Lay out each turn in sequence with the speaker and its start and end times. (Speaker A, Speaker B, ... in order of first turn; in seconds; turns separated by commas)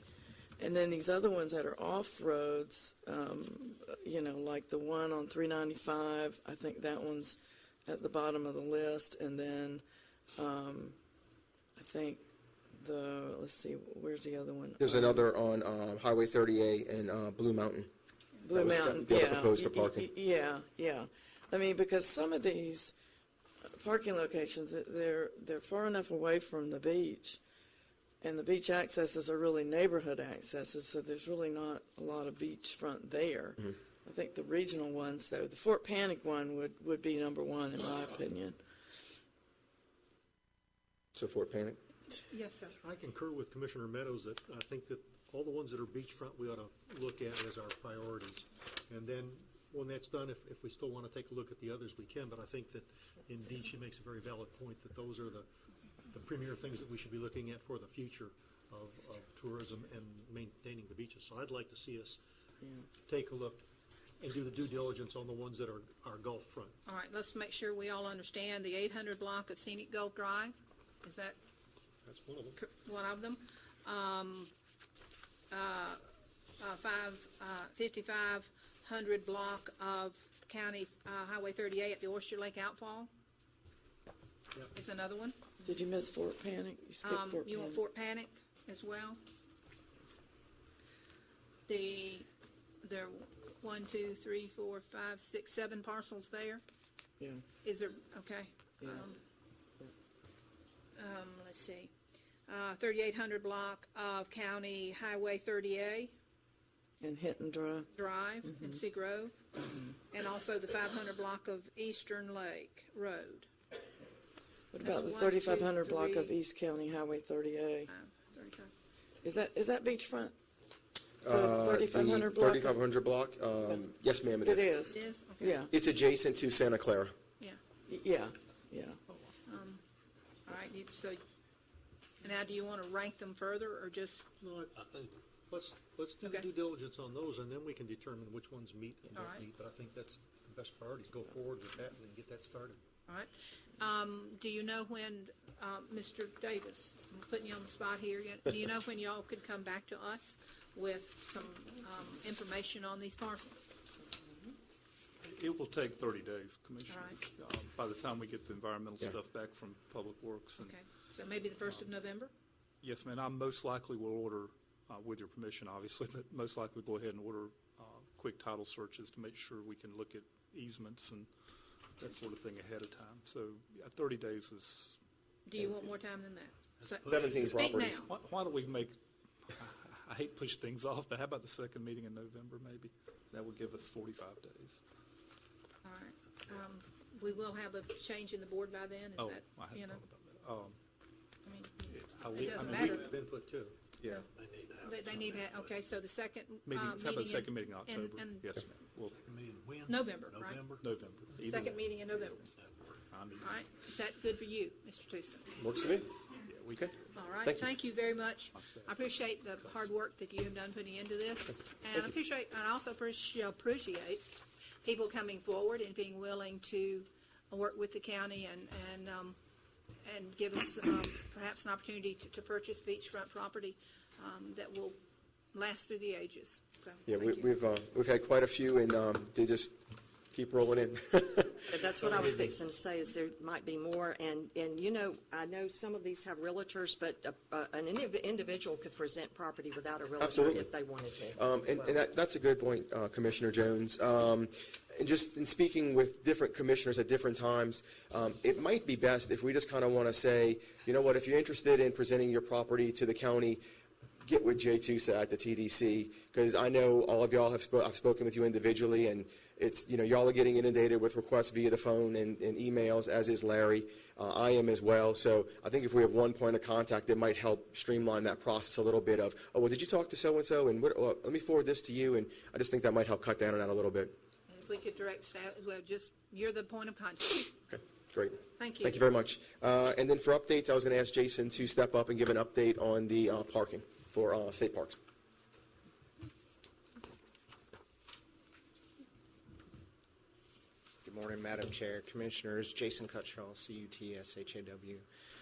Speaker A: 0.6-9.8, Speaker A: 10.3-11.0, Speaker A: 11.8-12.2, Speaker A: 12.7-15.2, Speaker B: 14.8-17.9, Speaker A: 18.4-22.9, Speaker B: 18.5-20.1, Speaker A: 23.6-27.4, Speaker A: 28.2-38.6, Speaker B: 41.1-41.8, Speaker C: 42.3-42.8, Speaker D: 42.8-55.5, Speaker D: 56.1-62.2, Speaker D: 63.0-63.6, Speaker D: 64.2-66.8, Speaker C: 66.8-71.4, Speaker D: 72.0-72.6, Speaker C: 72.6-74.5, Speaker C: 75.5-76.0, Speaker C: 76.6-83.1, Speaker C: 84.7-85.4, Speaker A: 85.6-87.8, Speaker C: 87.0-89.2, Speaker C: 91.7-92.3, Speaker C: 92.8-96.6, Speaker C: 97.6-99.2, Speaker C: 101.0-101.9, Speaker C: 102.5-106.1, Speaker A: 107.0-107.9, Speaker C: 107.9-109.4, Speaker A: 108.4-108.8, Speaker C: 110.1-113.5, Speaker A: 114.7-117.9, Speaker C: 114.8-116.3, Speaker C: 117.9-118.7, Speaker A: 119.2-120.3, Speaker B: 121.2-124.7, Speaker A: 121.2-122.8, Speaker A: 124.4-125.7, Speaker C: 124.9-125.6, Speaker B: 125.7-127.1, Speaker A: 127.9-129.0, Speaker C: 129.5-129.8, Speaker C: 130.5-131.2, Speaker C: 132.2-134.3, Speaker D: 134.4-135.0, Speaker D: 135.5-142.8, Speaker C: 139.1-139.4, Speaker C: 143.1-153.7, Speaker E: 155.2-160.8, Speaker C: 156.9-157.2, Speaker C: 160.6-162.3, Speaker E: 162.8-171.3, Speaker E: 172.0-175.0, Speaker C: 175.5-178.1, Speaker B: 177.1-178.0, Speaker E: 178.1-179.0, Speaker E: 179.5-184.8, Speaker C: 185.8-190.0, Speaker E: 189.2-190.8, Speaker C: 191.4-193.0, Speaker E: 191.9-193.1, Speaker D: 192.2-193.9, Speaker E: 194.0-194.2, Speaker C: 194.1-198.5, Speaker E: 196.7-199.3, Speaker D: 199.2-200.9, Speaker C: 199.9-200.7, Speaker E: 200.8-202.5, Speaker C: 201.4-202.5, Speaker E: 203.1-203.6, Speaker C: 203.4-205.5, Speaker B: 205.6-206.1, Speaker E: 206.5-206.9, Speaker C: 207.1-214.2, Speaker E: 208.5-209.0, Speaker C: 214.8-219.4, Speaker C: 220.0-225.0, Speaker C: 225.5-227.5, Speaker B: 227.1-229.7, Speaker B: 230.3-232.4, Speaker F: 231.7-241.9, Speaker B: 240.2-240.7, Speaker B: 241.3-253.6, Speaker B: 254.2-274.1, Speaker C: 274.5-277.5, Speaker B: 277.7-285.0, Speaker C: 278.6-279.0, Speaker G: 291.0-295.0